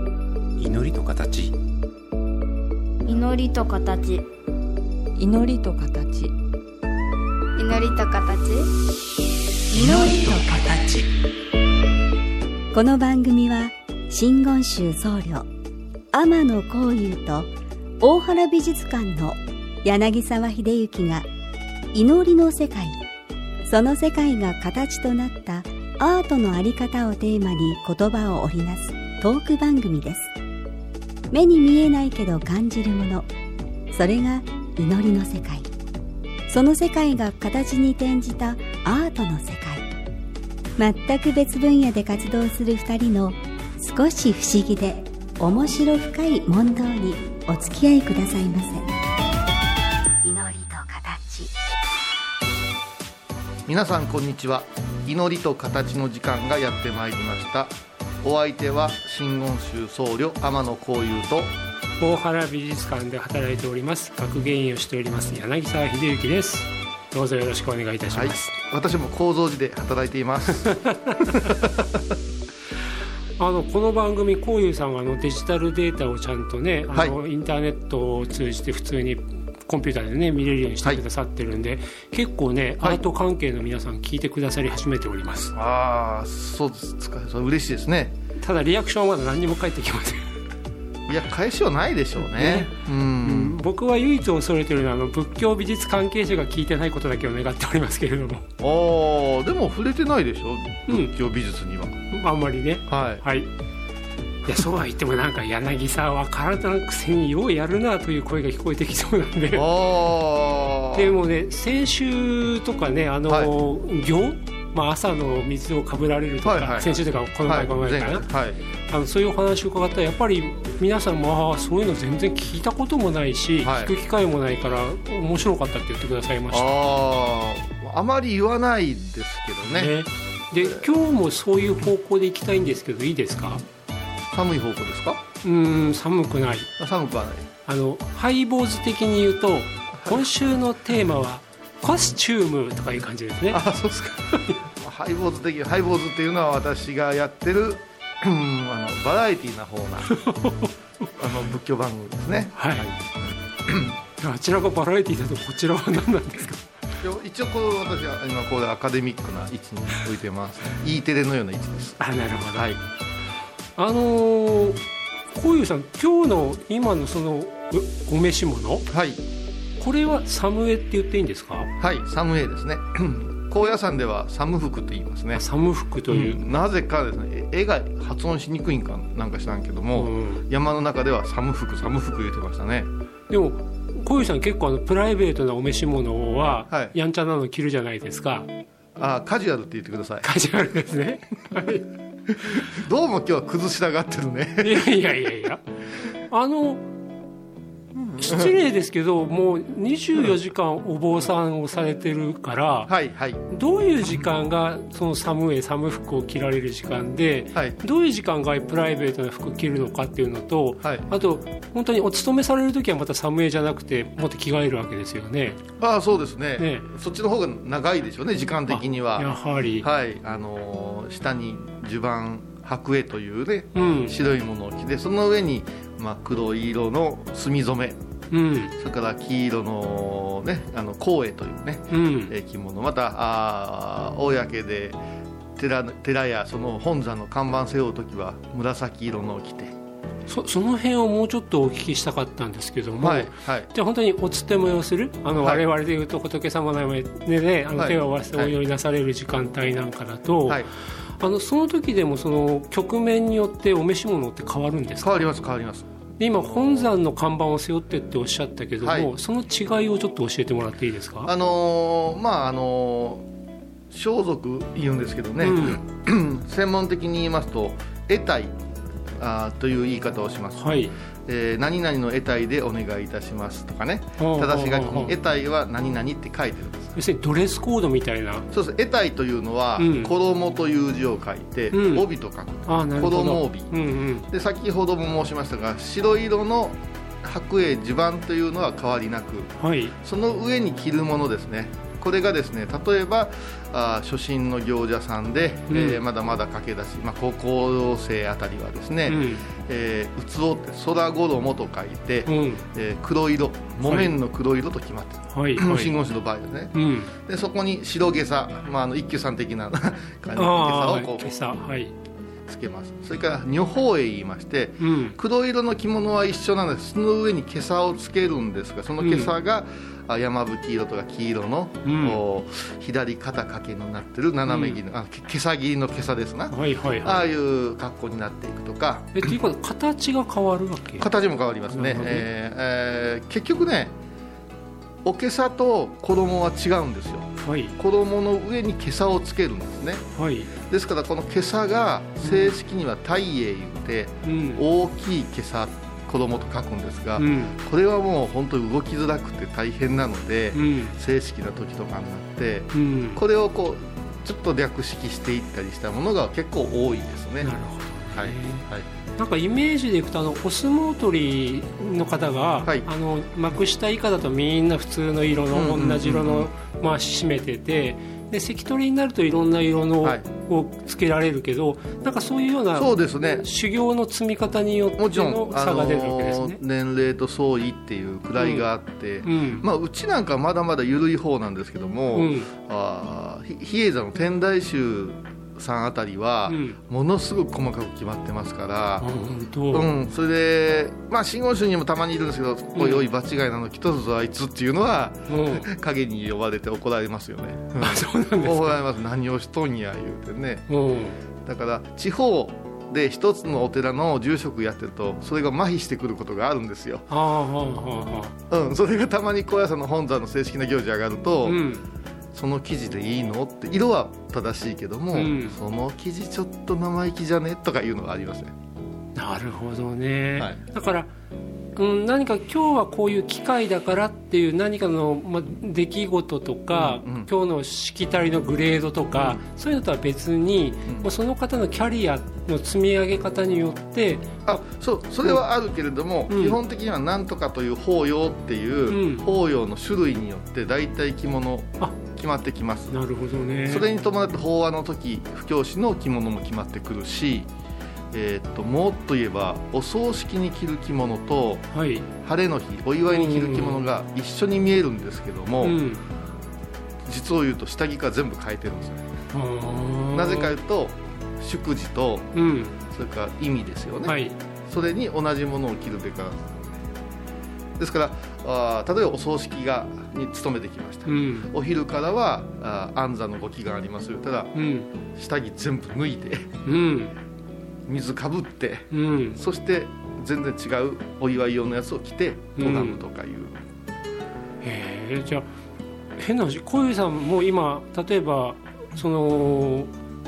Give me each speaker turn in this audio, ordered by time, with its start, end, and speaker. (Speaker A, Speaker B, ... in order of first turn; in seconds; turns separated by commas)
Speaker A: 0.6-1.5, Speaker B: 3.0-4.2, Speaker A: 5.2-6.3, Speaker B: 7.6-8.7, Speaker C: 9.7-10.8, Speaker C: 12.7-15.5, Speaker C: 16.1-21.2, Speaker C: 21.9-23.0, Speaker C: 23.7-30.3, Speaker C: 31.3-33.3, Speaker C: 33.9-35.6, Speaker C: 36.5-39.9, Speaker C: 40.8-48.9, Speaker C: 50.2-51.5, Speaker D: 53.6-61.5, Speaker E: 62.0-68.5, Speaker D: 68.1-72.1, Speaker E: 70.7-71.5, Speaker E: 73.4-85.5, Speaker D: 85.5-88.1, Speaker E: 88.4-90.3, Speaker D: 91.1-93.6, Speaker E: 92.2-98.5, Speaker D: 98.6-102.0, Speaker E: 102.1-103.5, Speaker D: 102.9-103.2, Speaker E: 104.4-109.7, Speaker D: 109.5-111.1, Speaker E: 110.9-118.2, Speaker D: 116.4-118.6, Speaker E: 118.9-126.9, Speaker D: 123.6-123.9, Speaker D: 126.5-129.9, Speaker E: 129.7-133.6, Speaker D: 130.6-130.8, Speaker D: 134.3-135.2, Speaker E: 135.4-136.7, Speaker D: 136.8-137.5, Speaker E: 137.7-143.6, Speaker D: 140.0-140.3, Speaker D: 143.5-150.1, Speaker E: 150.1-150.7, Speaker D: 151.2-153.1, Speaker E: 152.5-152.9, Speaker D: 153.6-154.0, Speaker E: 154.2-156.6, Speaker D: 157.0-162.0, Speaker E: 162.0-162.7, Speaker D: 162.5-162.8, Speaker E: 163.8-164.8, Speaker E: 165.3-168.8, Speaker D: 168.9-169.2, Speaker E: 169.8-171.7, Speaker D: 171.8-175.4, Speaker E: 175.3-176.4, Speaker D: 176.1-182.9, Speaker E: 179.9-180.4, Speaker E: 183.3-188.5, Speaker D: 186.7-186.9, Speaker D: 188.9-190.3, Speaker E: 190.2-191.8, Speaker D: 192.4-194.9, Speaker E: 194.6-195.6, Speaker E: 196.3-196.8, Speaker D: 198.0-198.5, Speaker E: 198.2-202.9, Speaker D: 202.9-203.4, Speaker E: 203.5-215.6, Speaker D: 210.8-211.1, Speaker D: 215.8-228.0, Speaker E: 216.6-216.9, Speaker E: 218.7-219.8, Speaker E: 223.7-224.1, Speaker E: 228.3-228.7, Speaker D: 228.8-235.0, Speaker E: 231.9-232.3, Speaker D: 235.6-239.8, Speaker E: 240.3-250.6, Speaker D: 243.0-243.7, Speaker D: 245.4-245.6, Speaker D: 247.7-248.5, Speaker E: 251.2-255.3, Speaker D: 255.0-256.9, Speaker E: 256.2-261.3, Speaker D: 258.8-259.1, Speaker D: 261.2-263.2, Speaker D: 263.9-268.6, Speaker E: 265.4-265.8, Speaker D: 269.1-276.9, Speaker E: 270.6-270.9, Speaker E: 274.2-275.1, Speaker E: 276.9-278.5, Speaker D: 278.5-283.7, Speaker E: 279.8-280.1, Speaker E: 281.7-282.1, Speaker E: 282.6-284.3, Speaker D: 284.3-311.3, Speaker E: 289.6-289.9, Speaker E: 295.7-296.0, Speaker E: 299.1-299.4, Speaker E: 302.2-302.6, Speaker E: 303.8-304.1, Speaker E: 305.3-305.9, Speaker E: 306.7-307.1, Speaker E: 310.4-311.9, Speaker D: 312.5-329.2, Speaker E: 314.8-315.2, Speaker E: 319.0-319.3, Speaker E: 321.8-322.2, Speaker E: 324.4-324.8, Speaker E: 326.5-327.3, Speaker E: 329.1-331.1, Speaker D: 331.0-333.9, Speaker E: 331.7-332.3, Speaker D: 335.0-340.0, Speaker E: 337.4-337.8, Speaker E: 340.1-340.5, Speaker D: 340.6-357.5, Speaker E: 342.2-342.5, Speaker E: 344.2-344.6, Speaker E: 347.2-347.5, Speaker E: 350.5-350.9, Speaker E: 352.7-353.2, Speaker E: 357.4-358.6, Speaker D: 358.1-358.9, Speaker E: 359.2-376.6, Speaker D: 365.5-366.5, Speaker D: 372.7-373.4, Speaker D: 375.0-389.1, Speaker E: 378.4-378.7, Speaker E: 379.2-379.6, Speaker E: 382.1-382.5, Speaker E: 386.5-386.8, Speaker E: 389.0-389.9, Speaker D: 389.7-400.7, Speaker E: 392.8-393.1, Speaker E: 395.3-395.7, Speaker E: 397.8-398.8, Speaker E: 400.7-401.2, Speaker D: 401.4-407.1, Speaker E: 407.1-408.3, Speaker D: 408.5-411.6, Speaker E: 411.4-411.8, Speaker D: 412.3-418.5, Speaker E: 415.1-415.5, Speaker E: 419.1-421.1, Speaker E: 421.8-434.6, Speaker D: 426.7-427.3, Speaker D: 429.1-429.4, Speaker D: 434.4-442.9, Speaker E: 436.3-436.6, Speaker E: 438.9-439.3, Speaker E: 442.9-443.9, Speaker D: 443.7-447.5, Speaker D: 448.1-451.7, Speaker E: 451.7-452.1, Speaker D: 452.2-455.8, Speaker E: 453.1-453.8, Speaker E: 455.6-456.0, Speaker D: 457.1-459.1, Speaker E: 459.3-460.5, Speaker D: 460.1-462.3, Speaker E: 462.3-462.8, Speaker D: 462.9-466.8, Speaker E: 464.0-464.4, Speaker D: 467.8-474.5, Speaker E: 471.1-471.5, Speaker E: 474.5-474.9, Speaker D: 475.1-476.5, Speaker E: 476.6-477.1, Speaker D: 477.9-483.6, Speaker E: 478.9-479.4, Speaker E: 482.6-483.0, Speaker E: 484.6-485.5, Speaker E: 486.2-489.9